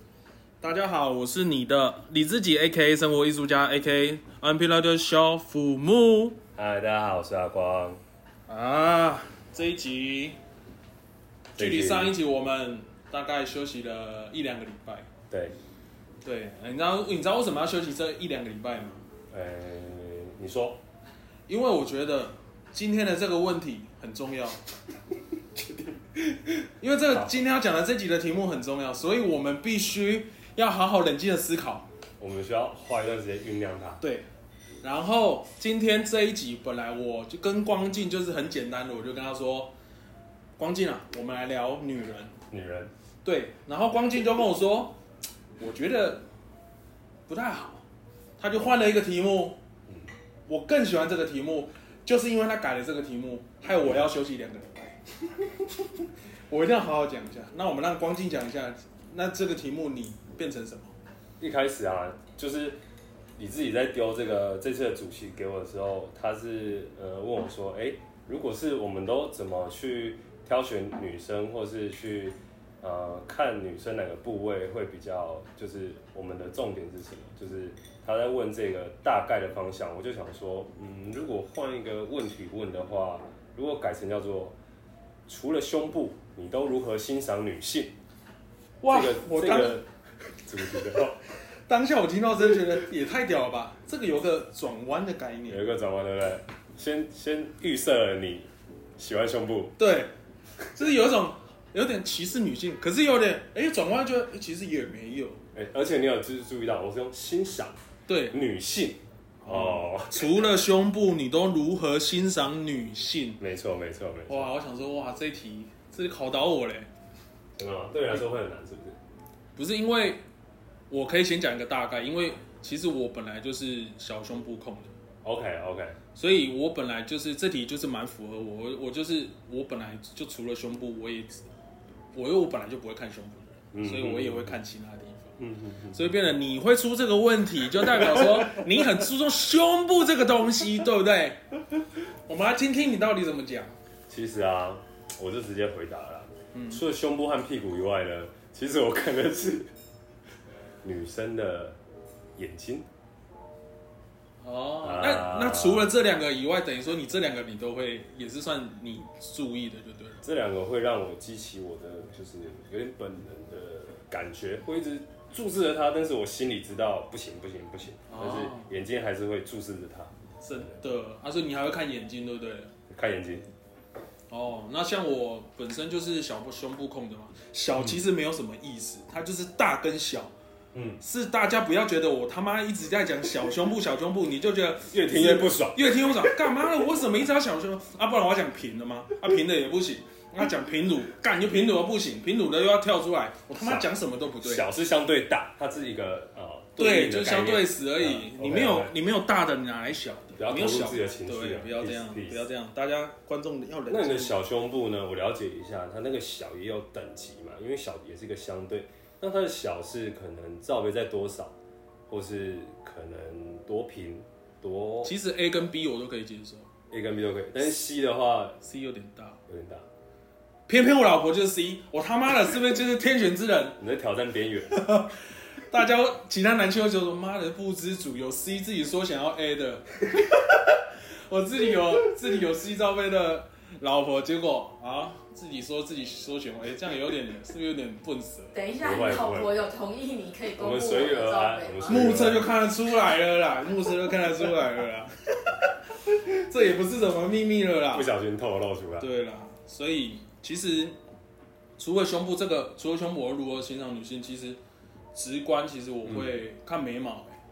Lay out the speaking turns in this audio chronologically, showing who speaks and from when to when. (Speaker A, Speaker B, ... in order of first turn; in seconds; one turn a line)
Speaker A: 0.6-6.4
Speaker B: 6.5-8.0
Speaker A: 8.5-10.4
Speaker A: 11.6-15.1
Speaker B: 11.6-12.2
Speaker B: 15.3-15.6
Speaker A: 16.2-19.0
Speaker B: 19.3-20.8
Speaker A: 21.5-24.6
Speaker A: 26.8-31.9
Speaker B: 32.2-34.0
Speaker A: 34.0-34.3
Speaker A: 34.8-39.7
Speaker A: 40.6-42.4
Speaker B: 42.5-42.9
Speaker A: 43.2-45.0
Speaker A: 45.6-46.2
Speaker A: 47.3-47.8
Speaker A: 48.4-49.6
Speaker A: 50.5-55.1
Speaker A: 56.5-60.9
Speaker B: 61.4-62.8
Speaker B: 63.4-84.6
Speaker B: 85.3-87.9
Speaker A: 88.8-89.8
Speaker B: 88.9-89.9
Speaker B: 90.4-91.2
Speaker A: 91.7-95.6
Speaker B: 95.5-99.8
Speaker A: 99.8-100.1
Speaker A: 100.7-105.4
Speaker B: 105.5-107.8
Speaker A: 108.1-108.4
Speaker B: 108.3-110.5
Speaker A: 109.4-113.4
Speaker B: 113.4-114.5
Speaker A: 114.3-116.9
Speaker B: 117.6-119.0
Speaker A: 119.6-120.2
Speaker A: 120.9-124.9
Speaker B: 125.2-126.0
Speaker A: 126.2-131.5
Speaker A: 132.1-135.4
Speaker B: 133.7-134.6
Speaker B: 135.4-136.2
Speaker A: 135.9-141.4
Speaker B: 138.0-138.5
Speaker A: 142.3-143.8
Speaker B: 144.1-149.7
Speaker A: 146.5-146.8
Speaker B: 150.8-151.8
Speaker B: 152.4-152.9
Speaker A: 154.4-160.2
Speaker B: 154.8-155.9
Speaker B: 160.2-170.1
Speaker A: 168.1-168.7
Speaker A: 170.4-172.7
Speaker B: 172.9-173.5
Speaker A: 174.3-180.3
Speaker B: 180.7-181.0
Speaker A: 181.0-194.7
Speaker B: 184.9-186.4
Speaker B: 193.6-193.9
Speaker B: 194.4-198.9
Speaker A: 196.8-204.4
Speaker B: 200.4-202.5
Speaker B: 203.9-211.6
Speaker B: 212.1-215.1
Speaker A: 215.0-216.7
Speaker B: 216.9-218.6
Speaker A: 218.6-219.4
Speaker B: 219.5-219.8
Speaker A: 220.7-223.8
Speaker B: 223.8-224.8
Speaker A: 224.7-238.5
Speaker C: 238.5-242.1
Speaker B: 238.8-239.5
Speaker B: 240.6-242.5
Speaker A: 241.9-248.1
Speaker B: 247.9-249.1
Speaker A: 249.0-251.0
Speaker A: 251.8-254.6
Speaker A: 255.1-257.4
Speaker B: 256.1-256.4